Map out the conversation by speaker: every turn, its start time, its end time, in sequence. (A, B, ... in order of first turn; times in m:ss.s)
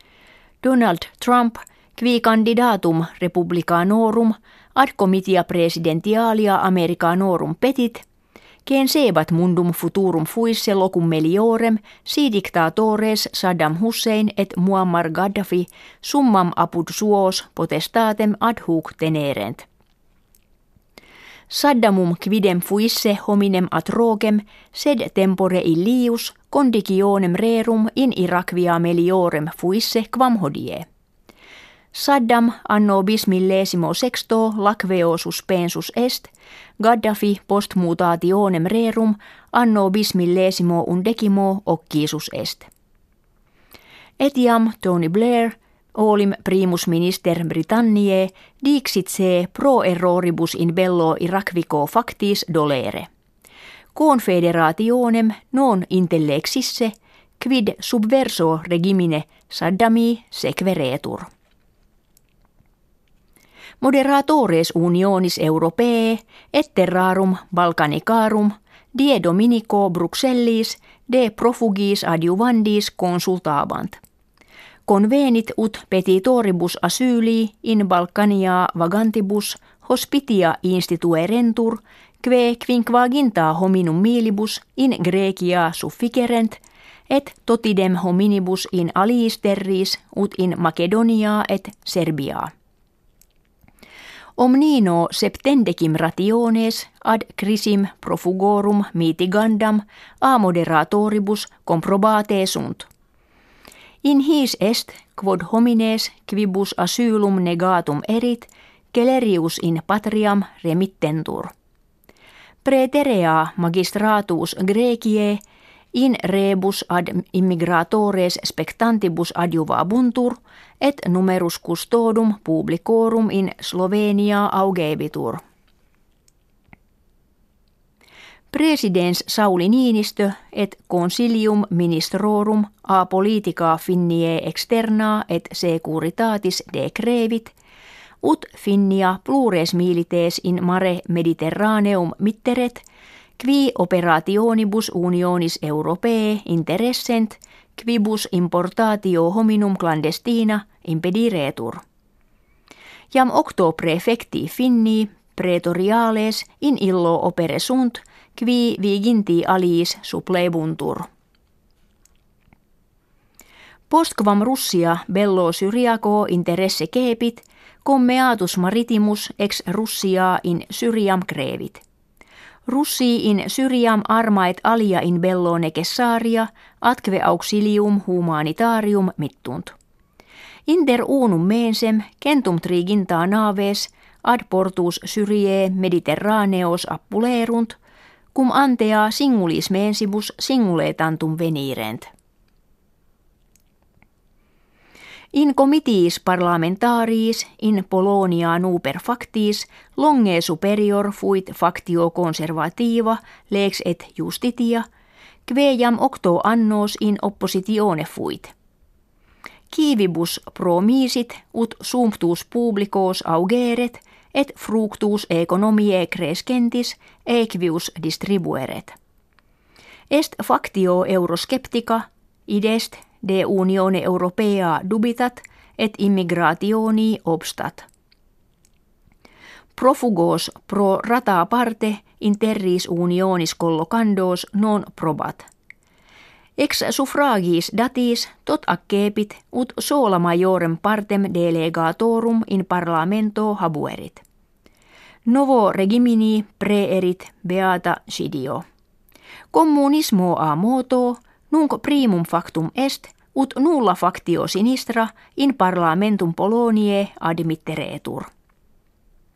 0:00.6-0:08.0 A
0:08.6-0:19.6 A
0:21.5-0:30.8 A
0:31.9-0:42.7 A
0:44.2-0:53.1 A
0:53.9-1:01.3 A
1:03.8-1:14.0 A
1:14.9-1:32.5 A
1:34.4-1:42.9 A
1:44.0-1:51.5 A
1:52.6-1:55.4 A
1:55.9-2:05.4 A
2:08.5-2:17.5 A
2:18.2-2:22.8 A
2:23.4-2:31.8 A
2:33.1-2:41.1 A
2:43.9-2:51.8 A
2:52.7-2:59.7 A
3:00.7-3:07.8 A
3:08.3-3:12.1 A
3:15.3-3:24.8 A
3:25.5-3:28.5 A
3:29.7-3:38.9 A
3:40.1-3:47.8 A
3:49.8-3:55.5 A
3:56.6-4:04.2 A
4:05.3-4:08.6 A
4:09.5-4:18.3 A